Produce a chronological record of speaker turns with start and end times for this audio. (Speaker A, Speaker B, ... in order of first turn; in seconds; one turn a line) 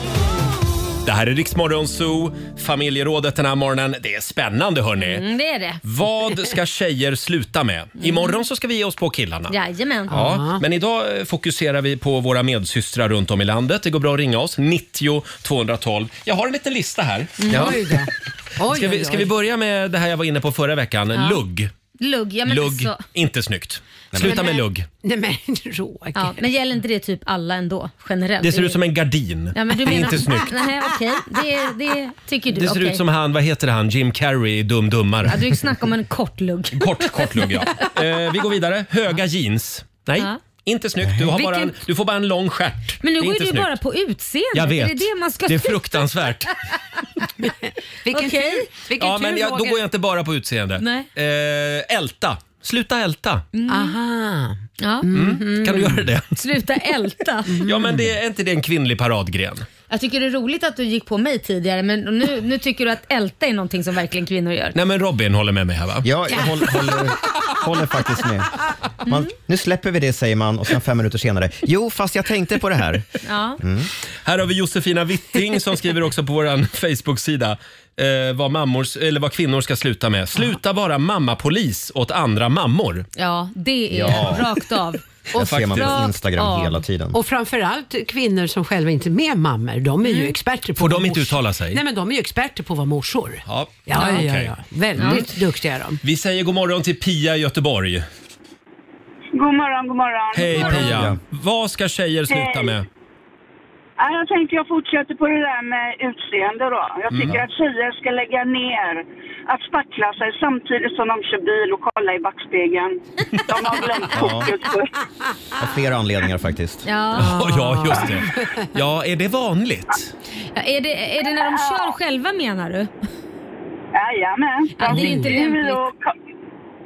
Speaker A: 1.0-5.2
Speaker B: 5.0-5.8
Speaker A: 5.8-9.5
Speaker B: 8.0-8.4
Speaker B: 9.5-10.2
Speaker A: 10.1-18.0
Speaker C: 10.1-10.6
Speaker B: 17.4-17.8
Speaker C: 17.5-19.3
Speaker A: 18.6-21.7
Speaker B: 21.1-21.4
Speaker B: 22.0-23.0
Speaker A: 22.5-24.9
Speaker C: 24.2-26.3
Speaker B: 26.1-28.8
Speaker A: 28.4-30.6
Speaker B: 29.5-33.0
Speaker A: 32.5-35.4
Speaker B: 35.2-37.5
Speaker A: 36.7-43.7
Speaker C: 41.3-41.8
Speaker B: 43.0-46.3
Speaker A: 44.5-46.5
Speaker C: 48.0-49.8
Speaker B: 48.1-48.7
Speaker A: 49.0-53.5
Speaker B: 50.8-51.1
Speaker B: 53.5-54.0
Speaker C: 53.7-56.0
Speaker B: 54.8-57.6
Speaker A: 55.1-56.3
Speaker C: 57.5-58.0
Speaker A: 57.6-59.7
Speaker B: 59.9-64.7
Speaker A: 64.7-66.1
Speaker D: 66.0-68.5
Speaker D: 69.0-73.0
Speaker B: 73.2-73.6
Speaker D: 73.6-73.9
Speaker A: 74.2-83.1
Speaker B: 83.2-85.0
Speaker D: 83.9-84.5
Speaker D: 85.3-87.2
Speaker A: 85.4-86.0
Speaker B: 85.7-86.8
Speaker C: 87.1-96.0
Speaker B: 90.0-90.3
Speaker A: 90.8-91.8
Speaker A: 93.5-95.3
Speaker B: 93.9-94.2
Speaker B: 95.0-95.2
Speaker A: 96.0-98.1
Speaker E: 99.3-101.0
Speaker A: 100.3-102.8
Speaker D: 100.5-101.2
Speaker E: 102.3-102.8
Speaker E: 104.0-113.0
Speaker A: 107.1-107.4
Speaker E: 113.5-114.9
Speaker D: 114.1-114.5
Speaker D: 115.6-116.8
Speaker B: 116.8-117.3
Speaker A: 117.2-120.1
Speaker C: 117.2-118.7
Speaker B: 120.5-122.9
Speaker E: 123.9-126.1
Speaker B: 124.8-125.8
Speaker C: 124.9-125.3